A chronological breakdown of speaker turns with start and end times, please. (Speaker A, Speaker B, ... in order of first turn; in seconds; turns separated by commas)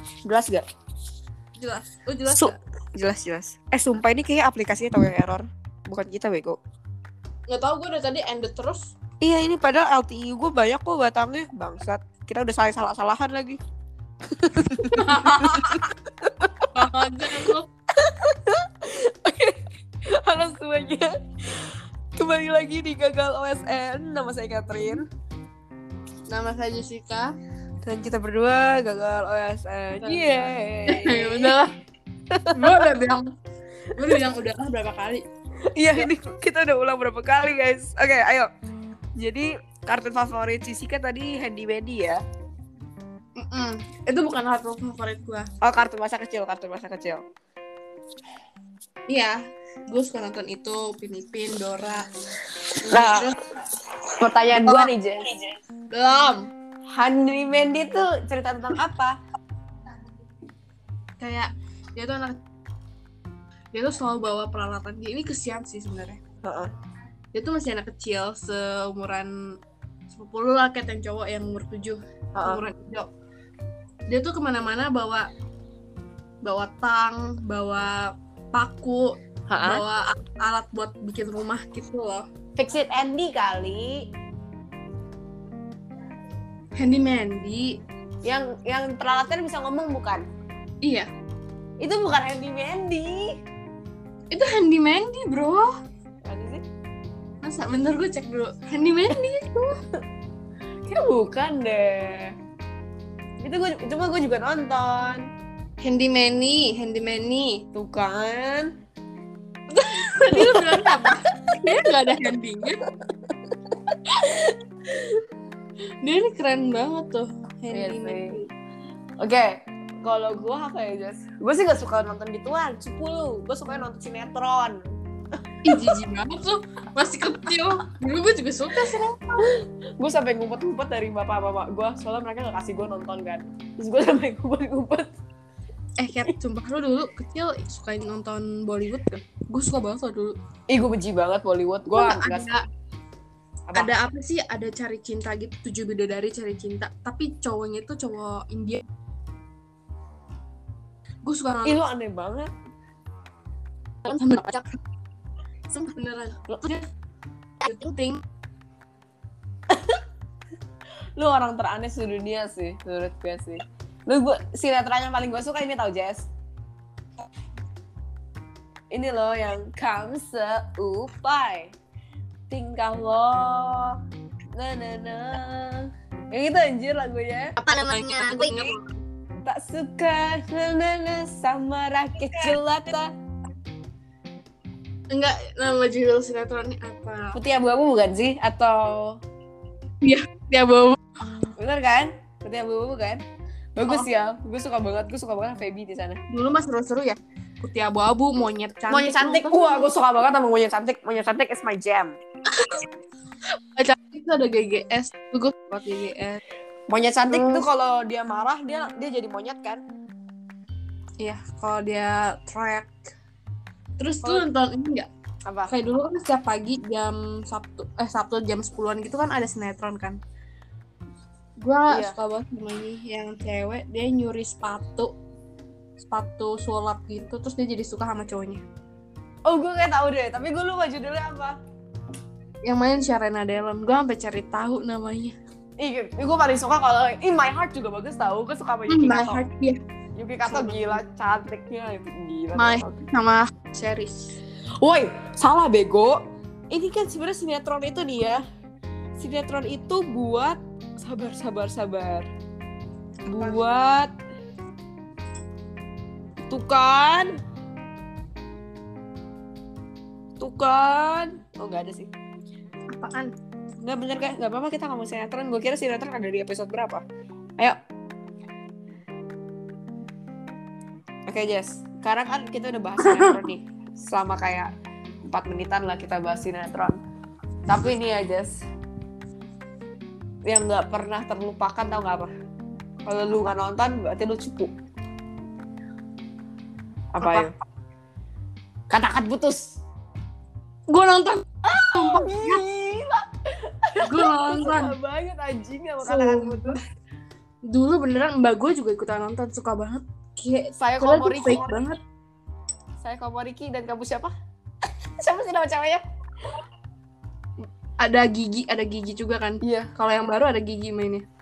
Speaker A: 0.2-0.7, Speaker B: 1.6-2.6, Speaker A: 2.3-6.6, Speaker B: 7.5-8.9, Speaker A: 9.2-13.6, Speaker A: 14.3-16.7, Speaker B: 14.9-15.9, Speaker B: 16.7-17.7, Speaker A: 18.0-25.1, Speaker B: 26.3-27.4, Speaker A: 27.8-31.6, Speaker B: 30.0-31.7, Speaker A: 32.3-32.9, Speaker B: 32.5-33.3, Speaker B: 33.9-35.2, Speaker A: 35.7-38.5, Speaker A: 39.2-42.2, Speaker B: 43.4-45.5, Speaker A: 45.6-47.2, Speaker B: 49.1-49.4, Speaker B: 49.9-52.1, Speaker B: 52.8-53.4, Speaker A: 52.9-53.3, Speaker A: 54.2-55.3, Speaker B: 54.5-54.9, Speaker B: 55.9-56.5, Speaker A: 56.9-59.2, Speaker B: 61.2-62.4, Speaker B: 63.7-66.2, Speaker A: 66.4-66.7, Speaker B: 67.3-69.3, Speaker B: 70.1-73.1, Speaker A: 72.3-72.6, Speaker B: 74.1-75.3, Speaker B: 76.4-82.3, Speaker A: 79.5-79.8, Speaker A: 82.6-84.0, Speaker B: 86.8-87.8, Speaker A: 88.2-90.3, Speaker B: 90.8-91.1, Speaker A: 91.8-93.4, Speaker B: 94.3-95.7, Speaker A: 96.2-96.6, Speaker B: 97.4-99.8, Speaker A: 100.9-102.3, Speaker A: 103.4-105.2, Speaker B: 105.8-107.7, Speaker A: 107.7-108.7, Speaker B: 109.7-112.8, Speaker A: 110.3-111.1, Speaker A: 113.9-114.5, Speaker B: 116.0-118.5, Speaker A: 117.7-118.4, Speaker A: 119.2-124.8, Speaker B: 125.6-129.5, Speaker A: 129.4-135.1, Speaker B: 136.0-140.3, Speaker A: 140.7-142.5, Speaker B: 141.9-142.6, Speaker B: 143.7-148.8, Speaker B: 151.2-151.8, Speaker A: 151.6-152.5, Speaker B: 154.1-154.8, Speaker B: 155.7-156.8, Speaker B: 157.6-158.2, Speaker A: 159.7-160.0, Speaker A: 161.2-166.3, Speaker A: 168.9-171.8, Speaker A: 172.5-174.0, Speaker A: 174.6-178.7, Speaker B: 177.6-178.9, Speaker A: 179.4-183.1, Speaker B: 185.1-187.4, Speaker A: 187.3-189.2, Speaker B: 190.0-191.0, Speaker A: 191.6-193.2, Speaker A: 193.8-196.2, Speaker B: 196.3-199.9, Speaker A: 198.9-202.2, Speaker B: 203.8-206.4, Speaker A: 206.9-209.8, Speaker B: 207.3-207.6, Speaker B: 211.2-212.9, Speaker B: 214.0-215.1, Speaker A: 215.5-215.7, Speaker B: 215.7-220.2, Speaker B: 221.6-225.1, Speaker A: 221.9-222.2, Speaker B: 226.0-228.6, Speaker A: 229.5-231.6, Speaker B: 232.6-235.3, Speaker A: 235.8-239.4, Speaker B: 238.9-239.8, Speaker A: 240.2-243.0, Speaker B: 240.5-241.0, Speaker B: 242.6-244.4, Speaker A: 244.8-246.2, Speaker A: 246.7-248.4, Speaker A: 249.2-252.3, Speaker A: 253.3-254.1, Speaker A: 256.5-257.3, Speaker A: 260.4-262.1, Speaker B: 262.9-263.3, Speaker A: 263.8-267.1, Speaker A: 271.3-274.7, Speaker B: 273.0-273.4, Speaker A: 275.3-277.0, Speaker A: 277.7-278.6, Speaker A: 280.4-282.3, Speaker A: 283.1-284.7, Speaker A: 287.1-287.5, Speaker B: 287.2-287.5, Speaker A: 288.9-289.8, Speaker B: 290.9-292.6, Speaker A: 291.7-296.8, Speaker B: 294.0-294.9, Speaker B: 296.0-296.8, Speaker B: 297.7-302.0, Speaker A: 300.8-301.8, Speaker A: 303.0-304.3, Speaker A: 305.2-306.0, Speaker B: 308.0-311.2, Speaker A: 309.6-309.9